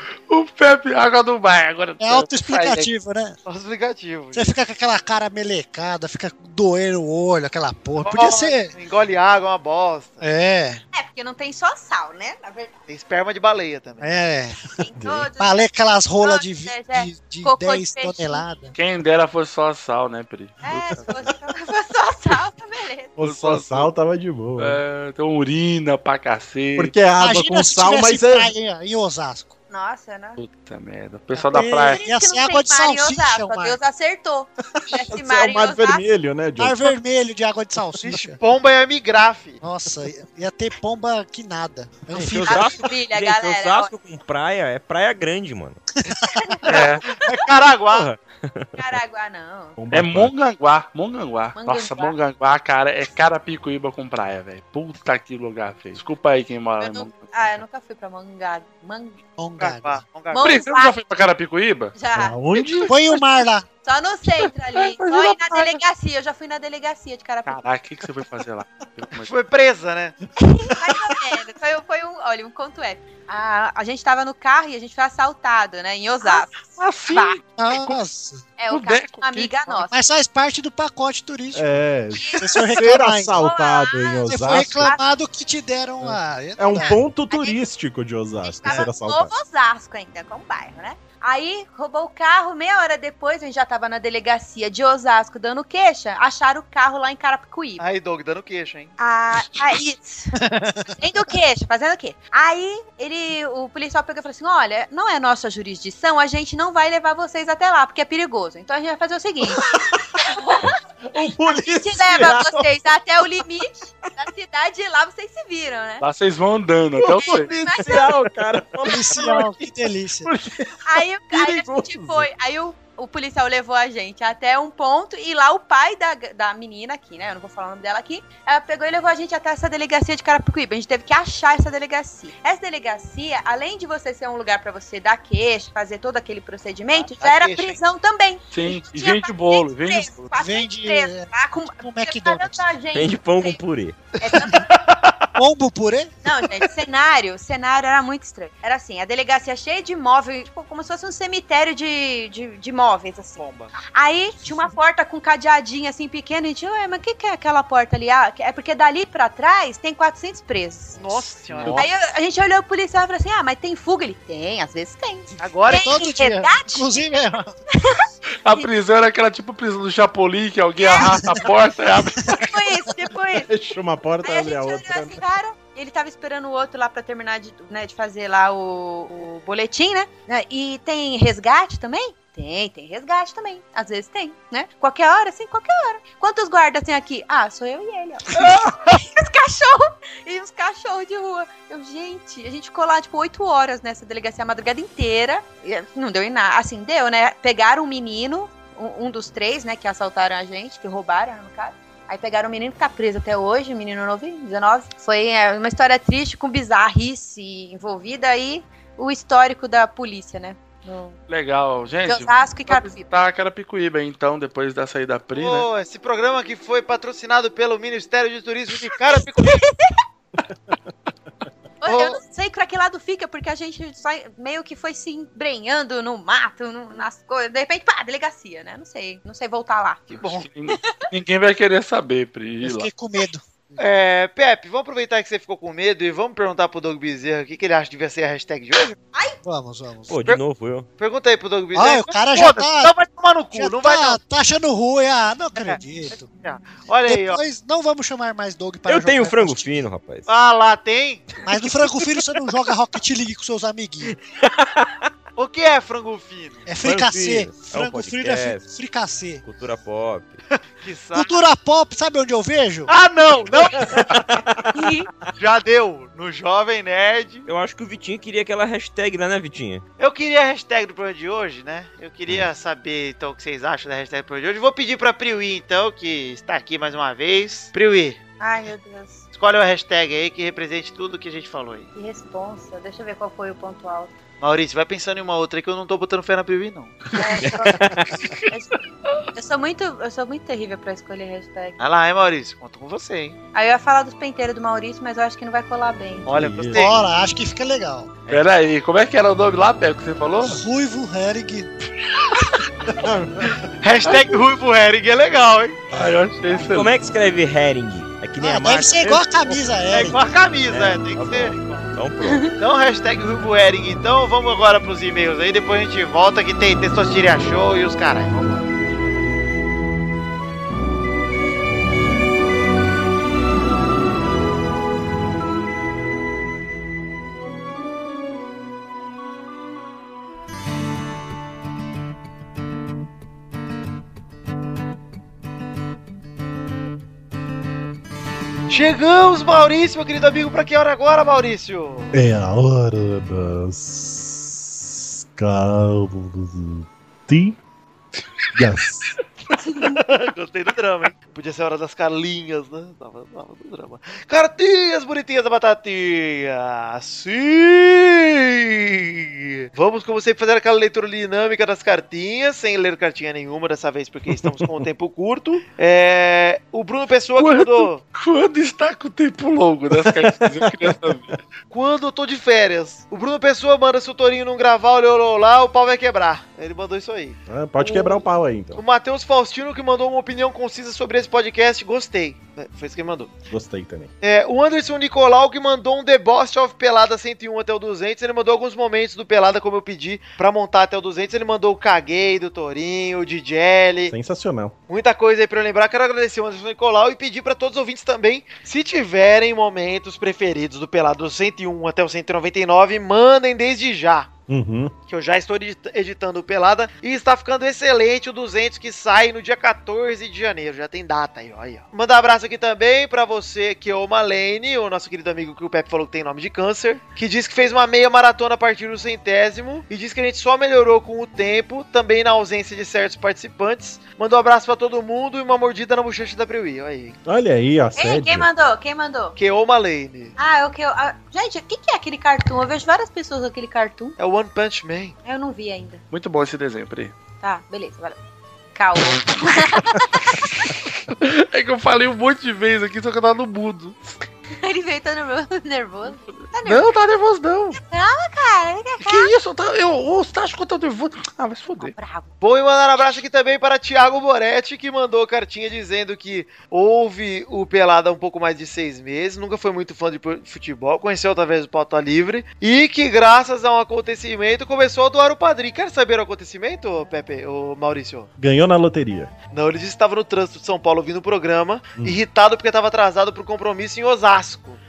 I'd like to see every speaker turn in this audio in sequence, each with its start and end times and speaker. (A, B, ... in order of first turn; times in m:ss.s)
0:00.3-0:02.9 A
0:02.0-0:03.4 B
0:03.4-0:04.5 C
0:04.3-0:08.7 B
0:08.0-0:10.2 C
0:10.2-0:10.8 B
0:10.9-0:12.7 D
0:12.9-0:14.2 C
0:14.0-0:14.6 B
0:14.8-0:15.7 D
0:15.0-0:15.3 E
0:15.4-0:18.7 B
0:16.2-0:18.4 D
0:18.7-0:21.0 A
0:20.6-0:23.2 D
0:23.2-0:24.8 E
0:23.2-0:23.9 A
0:24.6-0:27.0 A
0:26.8-0:28.5 E
0:27.2-0:29.6 B
0:29.7-0:30.4 D
0:30.4-0:32.0 A
0:31.4-0:36.1 D
0:31.5-0:33.8 B
0:34.6-0:36.9 E
0:36.6-0:38.4 B
0:38.0-0:39.6 C
0:39.6-0:42.8 B
0:42.1-0:45.8 F
0:42.5-0:43.9 D
0:46.4-0:47.4 D
0:46.7-0:48.1 C
0:46.7-0:47.0 A
0:47.9-0:48.7 F
0:48.8-0:49.8 D
0:49.8-0:50.3 E
0:49.9-0:57.5 A
0:51.5-0:52.2 D
0:56.8-0:59.2 D
0:59.4-1:00.0 B
0:59.6-1:00.6 C
1:00.3-1:01.0 D
1:00.4-1:01.9 A
1:01.9-1:02.4 D
1:02.1-1:02.9 E
1:02.9-1:03.7 B
1:03.8-1:07.6 D
1:04.7-1:05.8 A
1:07.4-1:09.3 A
1:09.1-1:10.2 C
1:10.5-1:17.4 D
1:16.2-1:18.0 A
1:17.6-1:18.5 B
1:18.6-1:20.0 D
1:18.7-1:19.6 A
1:19.7-1:21.6 B
1:21.5-1:24.9 E
1:22.1-1:25.0 D
1:22.4-1:23.4 B
1:24.3-1:27.0 B
1:26.0-1:29.4 E
1:26.6-1:27.6 D
1:28.4-1:37.8 D
1:37.8-1:38.9 C
1:39.0-1:40.3 D
1:41.0-1:49.6 D
1:50.2-1:56.0 D
1:51.1-1:52.7 E
1:56.0-1:57.5 A
1:57.0-2:02.2 E
1:57.0-1:58.3 D
1:58.8-2:00.3 B
2:00.8-2:23.6 D
2:16.9-2:17.8 C
2:18.5-2:20.3 A
2:20.3-2:22.7 B
2:22.9-2:24.0 F
2:24.2-2:24.7 D
2:24.6-2:25.3 C
2:25.4-2:26.1 B
2:26.2-2:33.4 D
2:33.4-2:33.7 C
2:33.9-2:47.0 D
2:41.0-2:41.9 C
2:41.6-2:41.9 A
2:45.4-2:46.0 C
2:45.7-2:47.5 B
2:47.8-2:48.7 D
2:48.4-2:52.5 A
2:50.8-2:51.6 D
2:52.2-2:53.5 D
2:53.4-2:55.2 E
2:54.2-3:31.2 D
3:31.3-3:35.7 A
3:32.0-3:33.1 D
3:35.3-3:39.6 C
3:39.4-3:39.9 D
3:40.5-3:40.8 E
3:41.8-3:51.1 D
3:41.9-3:42.2 C
3:50.1-3:50.5 C
3:50.1-3:52.9 A
3:52.6-3:53.8 B
3:53.8-3:59.0 C
3:59.1-3:59.4 D
3:59.4-4:00.2 B
4:00.1-4:00.9 F
4:01.0-4:04.2 C
4:01.7-4:02.9 B
4:03.5-4:06.2 B
4:05.5-4:07.4 C
4:07.0-4:09.9 B
4:08.9-4:10.3 F
4:10.2-4:11.3 C
4:11.4-4:14.2 B
4:14.0-4:14.9 F
4:15.4-4:16.6 C
4:16.6-4:19.4 B
4:16.8-4:18.7 F
4:19.4-4:20.4 F
4:20.5-4:21.4 C
4:21.1-4:22.9 B
4:22.9-4:24.0 C
4:24.0-4:24.4 F
4:24.7-4:25.1 D
4:25.3-4:27.5 C
4:27.4-4:29.8 F
4:30.0-4:38.2 C
4:38.4-4:39.2 D
4:39.3-4:41.9 C
4:41.9-4:44.1 D
4:44.4-4:47.0 C
4:47.1-4:48.0 D
4:47.4-4:48.3 F
4:48.5-4:48.8 D
4:49.3-4:51.8 D
4:51.8-4:53.4 C
4:53.5-4:56.3 D
4:56.2-4:56.9 E
4:56.2-4:57.0 C
4:56.7-4:58.2 B
4:58.3-5:00.6 A
5:00.4-5:01.7 B
5:02.9-5:03.7 E
5:03.8-5:05.8 C
5:05.9-5:06.9 A
5:06.5-5:12.5 F
5:08.4-5:10.2 B
5:09.9-5:11.8 C
5:12.2-5:12.5 D
5:12.6-5:18.6 C
5:38.7-5:42.2 C
5:42.1-5:47.6 E
5:48.6-5:49.1 E
5:49.7-5:50.0 D
5:49.8-6:08.0 C
6:04.3-6:04.8 E
6:07.4-6:11.4 A
6:09.9-6:11.0 E
6:11.7-6:23.3 C
6:17.5-6:18.8 E
6:23.5-6:24.1 E
6:24.2-6:34.1 C
6:34.1-6:34.7 E
6:34.9-6:44.3 C
6:44.5-6:44.9 E
6:45.1-7:07.2 C
7:07.2-7:08.5 E
7:08.0-7:09.4 D
7:09.4-7:10.3 C
7:10.4-7:14.2 D
7:14.2-7:15.2 C
7:15.2-7:16.0 D
7:16.1-7:17.2 A
7:17.4-7:18.2 D
7:18.7-7:20.7 D
7:21.1-7:24.2 A
7:24.6-7:26.9 D
7:26.3-7:27.8 A
7:27.7-7:29.3 D
7:29.0-7:31.9 A
7:31.8-7:32.3 D
7:32.4-7:48.3 C
7:48.4-7:49.3 E
7:49.5-7:54.8 C